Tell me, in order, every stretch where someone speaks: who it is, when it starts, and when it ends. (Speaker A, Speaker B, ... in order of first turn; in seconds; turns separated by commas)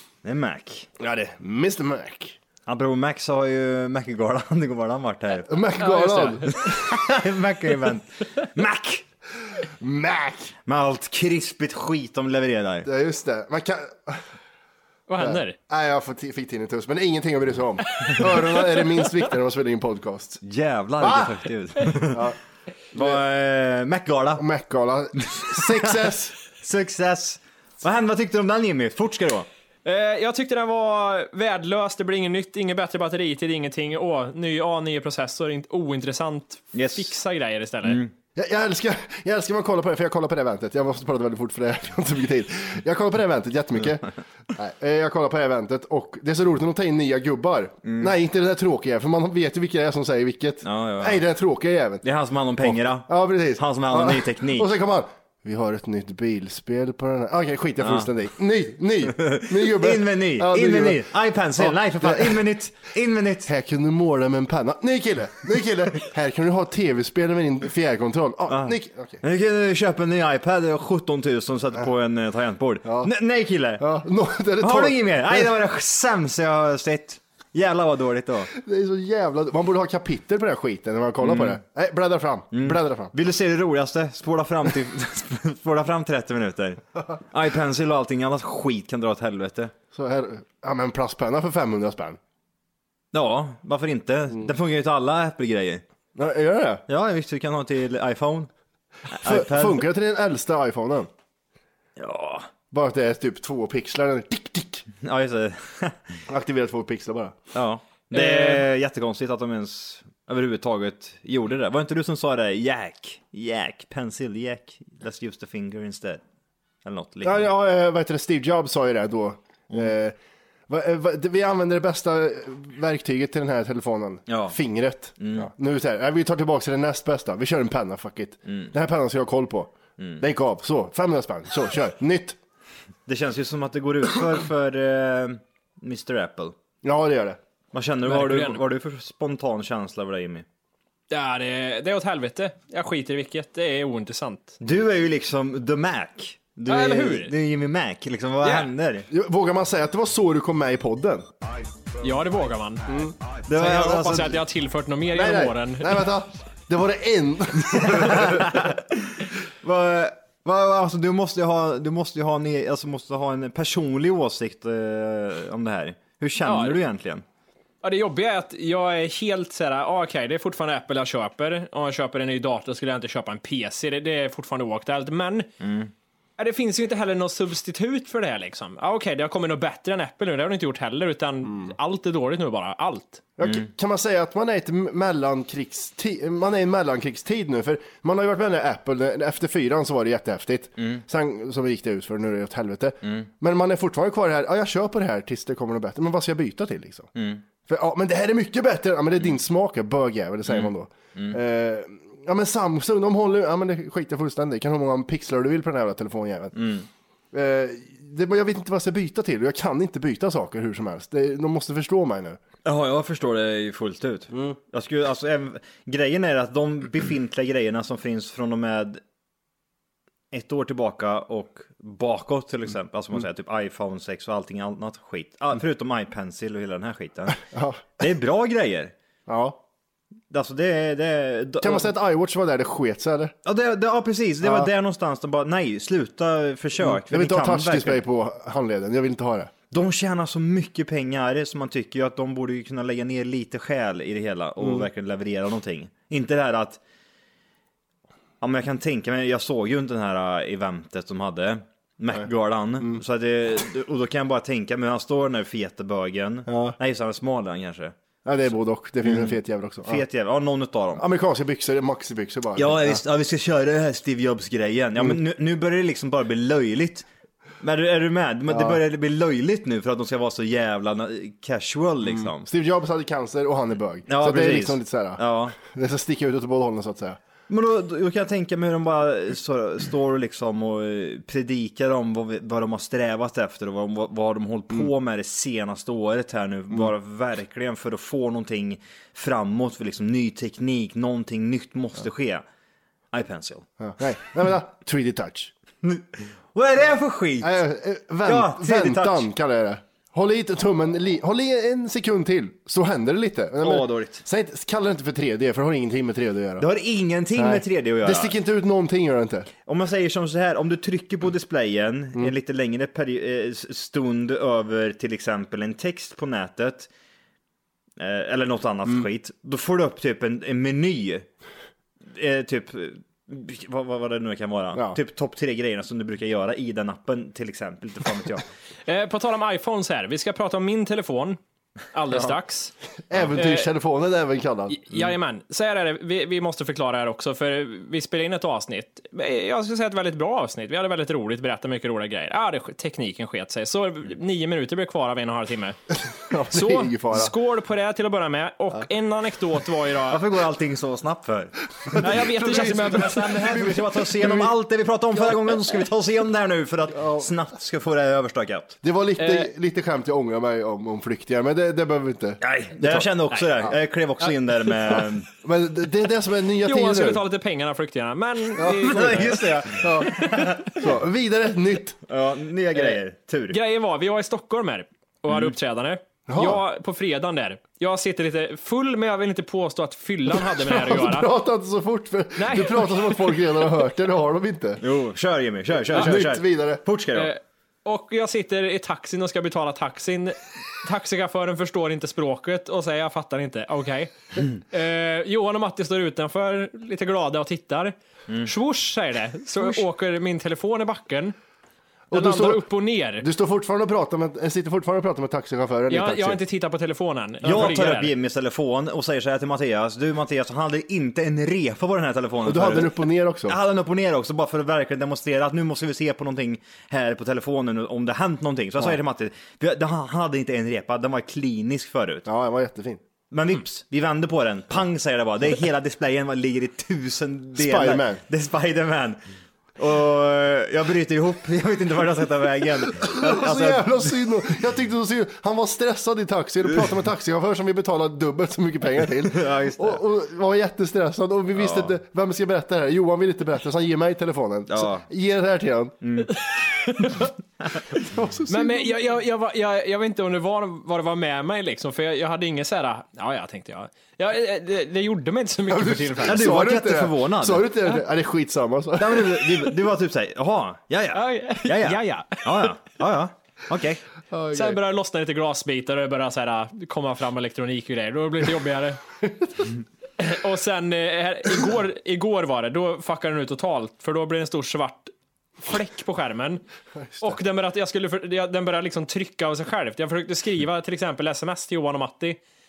Speaker A: 0.2-0.9, Speaker B: 1.0-2.4, Speaker A: 2.6-5.7, Speaker B: 5.5-7.0, Speaker C: 5.8-6.5, Speaker A: 6.5-9.0, Speaker B: 9.8-10.5, Speaker A: 10.7-12.9, Speaker B: 12.8-14.2, Speaker C: 15.1-15.6, Speaker B: 15.2-20.4, Speaker A: 20.4-22.3, Speaker B: 21.0-21.4, Speaker B: 22.1-22.4, Speaker A: 22.9-24.4, Speaker B: 22.9-23.2, Speaker B: 24.4-26.4, Speaker A: 25.2-29.5, Speaker C: 29.8-38.0, Speaker A: 36.7-37.1, Speaker A: 37.8-38.1, Speaker B: 38.4-52.0, Speaker A: 47.8-48.1, Speaker A: 50.6-51.2, Speaker A: 52.0-54.7, Speaker B: 52.6-62.4, Speaker A: 57.8-58.1, Speaker A: 59.1-63.5, Speaker B: 63.5-69.2, Speaker A: 68.5-73.8, Speaker B: 72.8-73.1, Speaker B: 73.8-75.5, Speaker A: 74.6-78.5, Speaker B: 78.5-83.1, Speaker A: 81.2-81.6, Speaker A: 82.5-89.7, Speaker B: 89.9-92.2, Speaker A: 93.1-95.8, Speaker B: 96.2-96.8, Speaker A: 96.9-98.5, Speaker A: 99.1-99.8, Speaker B: 99.2-101.1, Speaker A: 102.0-102.5, Speaker B: 102.7-104.9, Speaker A: 105.0-106.2, Speaker B: 106.3-107.4, Speaker A: 107.5-116.2, Speaker C: 108.1-108.6, Speaker A: 116.8-117.5, Speaker B: 117.2-120.1, Speaker B: 120.7-132.4, Speaker A: 124.3-124.6, Speaker A: 125.2-125.5, Speaker A: 130.0-130.2, Speaker A: 133.1-136.6, Speaker B: 136.8-137.4, Speaker A: 137.7-140.4, Speaker C: 138.0-138.6, Speaker C: 141.1-144.6, Speaker A: 144.6-149.1, Speaker C: 146.7-147.3, Speaker C: 148.4-148.7, Speaker B: 149.1-151.3, Speaker C: 152.0-152.9, Speaker B: 152.9-153.1, Speaker A: 153.4-154.4, Speaker C: 153.5-156.0, Speaker B: 155.1-158.7, Speaker A: 157.7-167.2, Speaker C: 166.4-166.8, Speaker C: 167.8-175.5, Speaker A: 175.6-175.9, Speaker C: 176.4-183.2, Speaker B: 183.4-197.1, Speaker A: 183.4-183.7, Speaker A: 197.1-197.4, Speaker B: 197.7-206.6, Speaker A: 200.4-201.4, Speaker A: 206.5-206.9, Speaker B: 207.3-212.4, Speaker A: 212.6-219.0, Speaker B: 214.3-214.6, Speaker A: 220.3-227.4, Speaker B: 227.5-227.9, Speaker A: 228.0-228.9, Speaker B: 229.3-229.6, Speaker A: 230.3-231.9, Speaker B: 231.6-233.3, Speaker A: 233.4-238.0, Speaker B: 234.4-234.7, Speaker B: 236.8-239.5, Speaker A: 239.7-246.8, Speaker B: 244.6-244.8, Speaker A: 248.4-257.9, Speaker B: 256.5-256.8, Speaker B: 258.2-260.0, Speaker A: 259.0-261.0, Speaker B: 260.9-263.0, Speaker A: 262.6-267.1, Speaker A: 267.6-272.5, Speaker B: 268.5-268.8, Speaker B: 272.1-277.2, Speaker A: 274.1-275.6, Speaker A: 277.5-292.4, Speaker A: 293.1-293.6, Speaker B: 293.8-295.5, Speaker A: 295.8-297.6, Speaker B: 297.4-306.7, Speaker A: 298.2-299.3, Speaker A: 303.6-304.2, Speaker A: 306.6-308.3, Speaker B: 307.3-309.5, Speaker A: 309.6-316.9, Speaker A: 318.0-321.3, Speaker A: 322.1-328.4, Speaker C: 328.9-331.4, Speaker C: 331.9-332.7, Speaker B: 333.1-334.8, Speaker C: 333.4-333.7, Speaker C: 334.7-345.8, Speaker B: 346.1-347.3, Speaker C: 346.5-350.2, Speaker A: 350.1-358.8, Speaker C: 352.0-353.6, Speaker B: 352.7-354.5, Speaker B: 356.9-357.3, Speaker B: 358.8-363.1, Speaker C: 359.2-359.5, Speaker A: 362.4-365.3, Speaker B: 365.4-367.2, Speaker C: 366.6-370.5, Speaker B: 368.6-372.0, Speaker A: 368.8-370.8, Speaker A: 372.1-373.6, Speaker C: 373.5-381.3, Speaker B: 376.3-376.6, Speaker B: 380.4-384.8, Speaker C: 382.4-383.4, Speaker A: 384.8-387.3, Speaker B: 385.8-386.8, Speaker C: 387.1-401.3, Speaker B: 402.1-402.6, Speaker C: 402.1-403.2, Speaker B: 403.2-406.4, Speaker C: 405.9-408.1, Speaker A: 407.4-422.2, Speaker B: 412.4-413.6, Speaker B: 422.2-423.0, Speaker A: 423.3-429.2, Speaker B: 427.5-428.2, Speaker A: 429.8-434.1, Speaker B: 433.0-445.9, Speaker A: 439.2-440.0, Speaker A: 441.5-441.9, Speaker A: 444.7-445.0, Speaker A: 446.0-446.3, Speaker C: 446.5-447.3, Speaker B: 447.9-448.9, Speaker C: 448.5-456.5, Speaker B: 455.7-459.7, Speaker A: 456.2-457.7, Speaker A: 459.0-464.0, Speaker C: 461.1-462.7, Speaker B: 464.3-464.8, Speaker C: 464.5-469.0, Speaker C: 470.2-476.6, Speaker B: 477.0-477.4, Speaker C: 477.2-482.4